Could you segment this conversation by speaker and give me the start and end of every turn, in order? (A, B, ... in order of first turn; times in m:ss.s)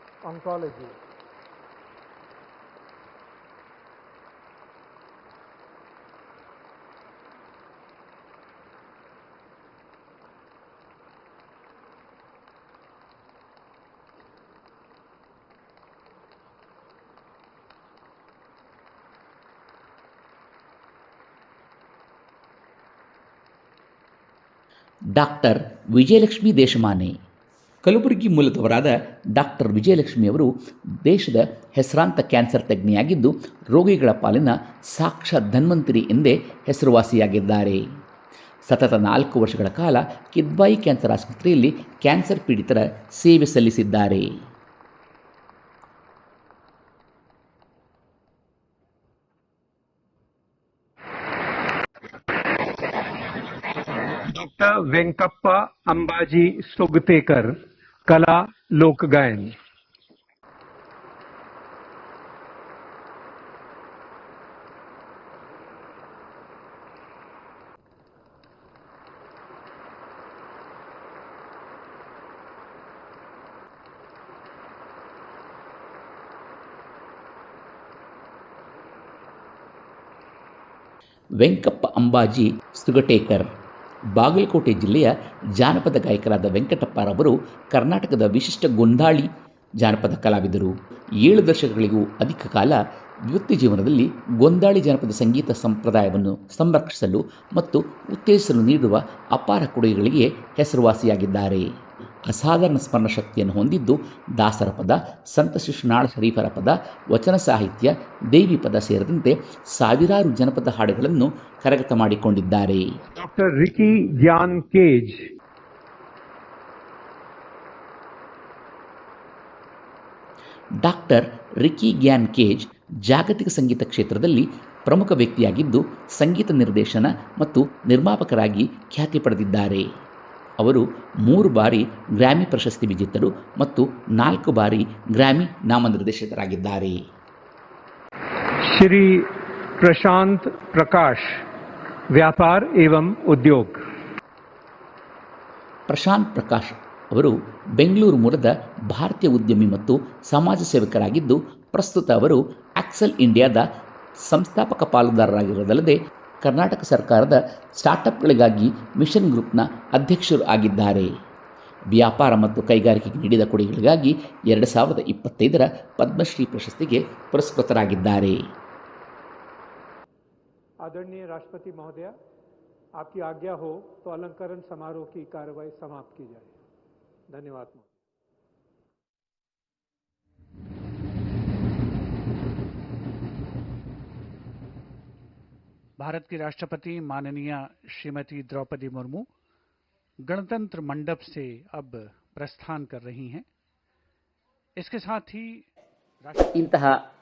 0:00.2-0:01.0 A
0:25.2-0:27.1 B
0:27.8-0:30.5 B
0:31.0-0:37.8 B
0:38.7-0:44.3 B
0:54.3-0:59.5 A
1:21.4-1:23.5 B
1:24.1-1:29.3 B
1:29.8-1:41.7 B
1:42.3-1:52.9 B
1:53.2-1:55.3 A
2:00.8-2:09.8 B
2:10.6-2:17.0 B
2:18.7-2:21.3 A
2:22.1-2:23.8 A
2:25.9-2:33.6 B
2:34.3-2:41.1 B
2:41.9-2:48.4 B
2:50.8-2:52.1 A
2:53.0-2:56.5 A
2:57.3-2:57.9 A
3:06.0-3:09.3 C
3:10.3-3:13.4 C
3:14.8-3:15.6 C
3:16.2-3:16.6 C
3:16.6-3:16.9 B